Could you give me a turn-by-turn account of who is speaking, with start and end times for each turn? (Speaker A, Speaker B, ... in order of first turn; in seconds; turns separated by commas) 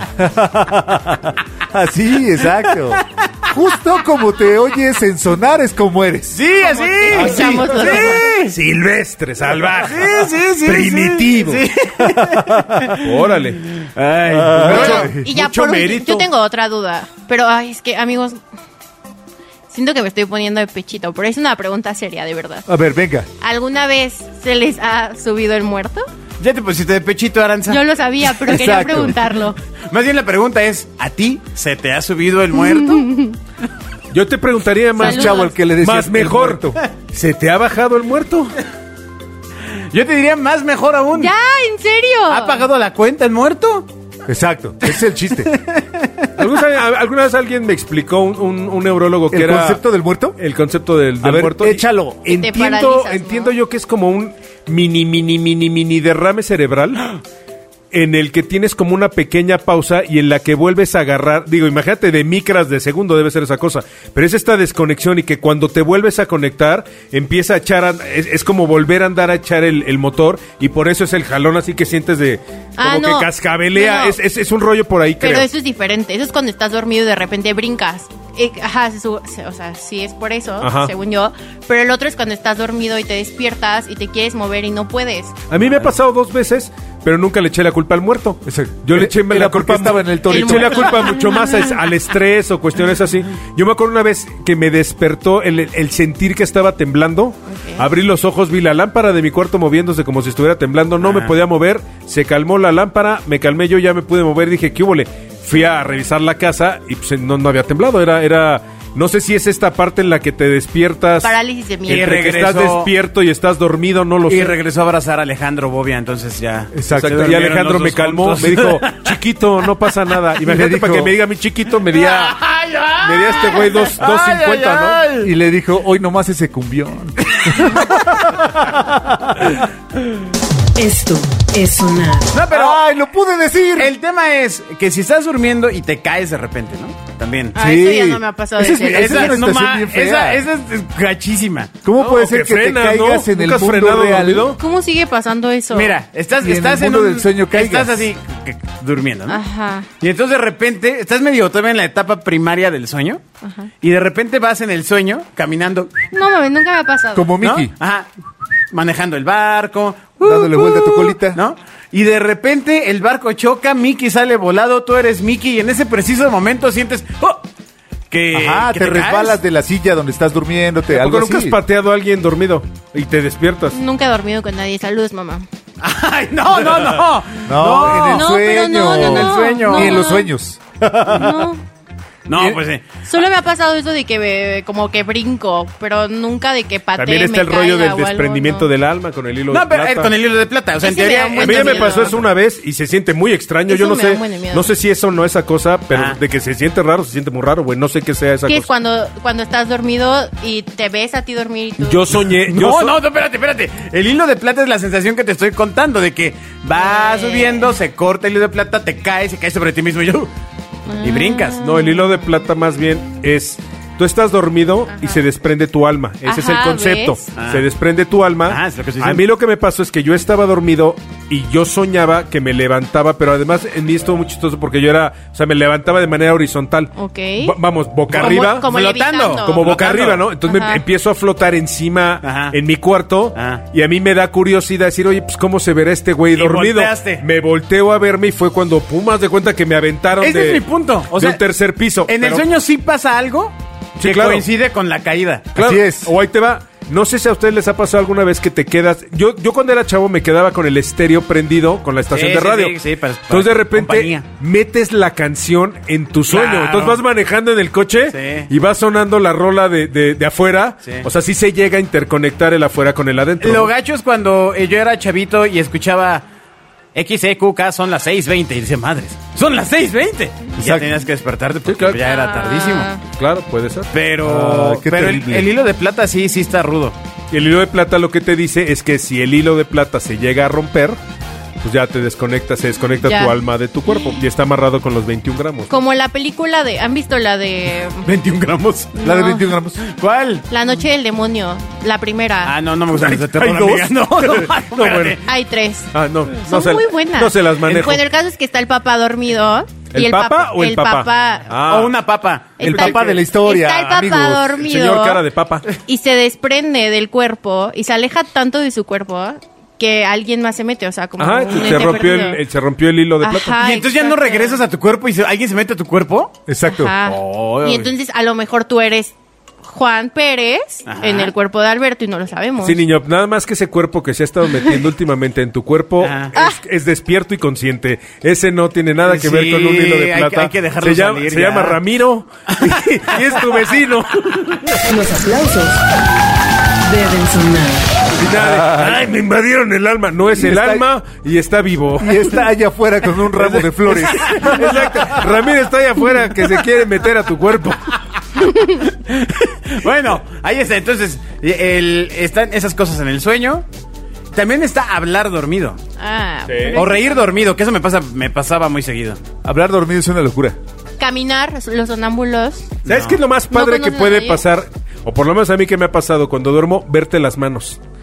Speaker A: 0.2-6.4, Speaker B: 2.8-3.0, Speaker B: 6.3-8.6, Speaker C: 6.6-8.2, Speaker A: 7.1-7.8, Speaker D: 8.4-11.6, Speaker B: 9.5-13.1, Speaker A: 12.0-12.9, Speaker D: 13.0-13.6, Speaker B: 13.7-15.2, Speaker A: 14.3-15.3, Speaker D: 14.6-16.2, Speaker C: 14.7-18.4, Speaker C: 19.7-22.6, Speaker A: 22.7-23.3, Speaker C: 23.4-26.1, Speaker B: 26.4-27.8, Speaker C: 27.7-29.6, Speaker A: 28.4-29.1, Speaker B: 29.9-33.1, Speaker C: 32.5-33.4, Speaker D: 34.1-38.5, Speaker C: 35.0-35.5, Speaker A: 35.0-36.8, Speaker B: 39.9-41.3, Speaker C: 41.1-42.6, Speaker B: 42.3-43.9, Speaker A: 44.2-45.5, Speaker B: 44.9-46.3, Speaker D: 46.4-49.8, Speaker A: 49.3-50.4, Speaker D: 50.4-57.2, Speaker A: 51.2-52.3, Speaker C: 52.3-53.5, Speaker D: 57.9-75.5, Speaker C: 72.8-74.2, Speaker C: 75.2-85.3, Speaker D: 80.6-80.9, Speaker D: 85.5-111.3, Speaker A: 88.4-91.1, Speaker C: 90.3-91.7, Speaker C: 97.5-97.8, Speaker B: 101.0-101.4, Speaker C: 111.2-112.2, Speaker D: 111.9-114.5, Speaker B: 111.9-112.9, Speaker B: 114.3-119.1, Speaker A: 116.7-117.4, Speaker D: 116.9-122.4, Speaker A: 120.4-121.1, Speaker B: 121.9-125.3, Speaker D: 123.0-125.0, Speaker A: 125.2-129.6, Speaker B: 127.3-128.2, Speaker E: 130.8-132.4, Speaker B: 132.3-132.8, Speaker A: 132.5-133.9, Speaker B: 133.8-137.6, Speaker C: 137.5-139.4, Speaker A: 137.5-140.4, Speaker B: 138.8-141.7, Speaker A: 141.8-144.6, Speaker D: 142.0-144.6, Speaker C: 144.6-145.9, Speaker B: 145.7-149.4, Speaker A: 146.4-148.0, Speaker C: 149.3-149.9, Speaker B: 150.0-153.2, Speaker C: 153.4-153.7, Speaker B: 153.8-155.9, Speaker C: 156.1-157.3, Speaker A: 157.1-157.7, Speaker B: 157.4-158.1, Speaker B: 158.7-167.4, Speaker A: 160.2-161.4, Speaker B: 168.1-169.4, Speaker A: 168.3-171.6, Speaker D: 170.9-173.8, Speaker C: 173.7-175.4, Speaker B: 175.8-180.1, Speaker A: 177.4-181.3, Speaker C: 178.1-180.3, Speaker C: 181.0-181.6, Speaker B: 182.3-182.8, Speaker C: 183.0-188.7, Speaker D: 187.0-190.1, Speaker B: 189.5-192.3, Speaker C: 190.8-192.2, Speaker D: 191.4-198.7, Speaker C: 193.7-194.7, Speaker B: 195.9-196.2, Speaker C: 198.4-202.1, Speaker D: 201.8-203.0, Speaker B: 202.3-210.3, Speaker C: 206.8-207.7, Speaker C: 210.9-212.1, Speaker B: 211.0-211.6, Speaker D: 211.6-228.7, Speaker C: 214.9-215.2, Speaker C: 216.2-217.3, Speaker B: 217.3-217.7, Speaker B: 218.4-219.2, Speaker C: 226.9-227.6, Speaker C: 228.1-229.7, Speaker B: 228.1-230.3, Speaker D: 229.4-240.6, Speaker C: 230.4-230.8, Speaker B: 232.2-232.6, Speaker B: 233.3-233.6, Speaker B: 236.3-237.2, Speaker B: 240.2-241.4, Speaker D: 241.1-242.4, Speaker B: 242.0-245.5, Speaker D: 244.0-244.4, Speaker D: 245.5-252.8, Speaker A: 245.6-246.1, Speaker B: 252.1-254.2, Speaker D: 253.3-263.7, Speaker B: 256.3-257.0, Speaker B: 258.1-258.5, Speaker B: 263.4-266.2, Speaker B: 266.9-272.9, Speaker A: 270.6-270.9, Speaker D: 271.6-272.0, Speaker C: 272.0-273.0, Speaker D: 273.0-273.9, Speaker B: 273.9-276.9, Speaker A: 274.2-275.5, Speaker D: 277.3-281.0, Speaker D: 281.6-285.7, Speaker C: 283.0-283.4, Speaker C: 285.7-288.1, Speaker B: 288.0-288.9, Speaker C: 288.9-289.5, Speaker A: 289.0-289.8, Speaker B: 289.8-290.4, Speaker C: 290.5-292.6, Speaker B: 292.4-295.2, Speaker D: 293.0-295.2, Speaker C: 295.2-295.9, Speaker D: 295.9-298.0, Speaker C: 296.4-301.5, Speaker D: 299.9-301.9, Speaker B: 301.5-303.1, Speaker C: 302.6-312.4, Speaker A: 302.6-304.6, Speaker D: 302.6-302.9, Speaker D: 304.6-305.6, Speaker D: 311.2-313.6, Speaker C: 313.2-314.6, Speaker B: 313.6-316.4, Speaker A: 316.5-316.9, Speaker C: 316.6-322.8, Speaker B: 317.0-317.9, Speaker B: 320.9-321.3, Speaker D: 322.6-334.8, Speaker B: 326.0-326.3, Speaker B: 329.0-331.8, Speaker B: 332.5-333.7, Speaker E: 334.8-335.8, Speaker E: 336.8-338.1, Speaker D: 338.2-342.2, Speaker A: 338.3-339.1, Speaker A: 340.3-340.9, Speaker A: 342.0-345.2, Speaker D: 343.3-347.8, Speaker B: 343.9-345.1, Speaker C: 348.5-348.8, Speaker B: 348.7-353.6, Speaker B: 354.3-355.8, Speaker C: 356.0-357.4, Speaker D: 356.5-356.8, Speaker B: 356.7-359.2, Speaker A: 359.4-360.6, Speaker C: 361.0-362.7, Speaker B: 362.8-363.2, Speaker D: 362.9-367.8, Speaker C: 363.5-364.4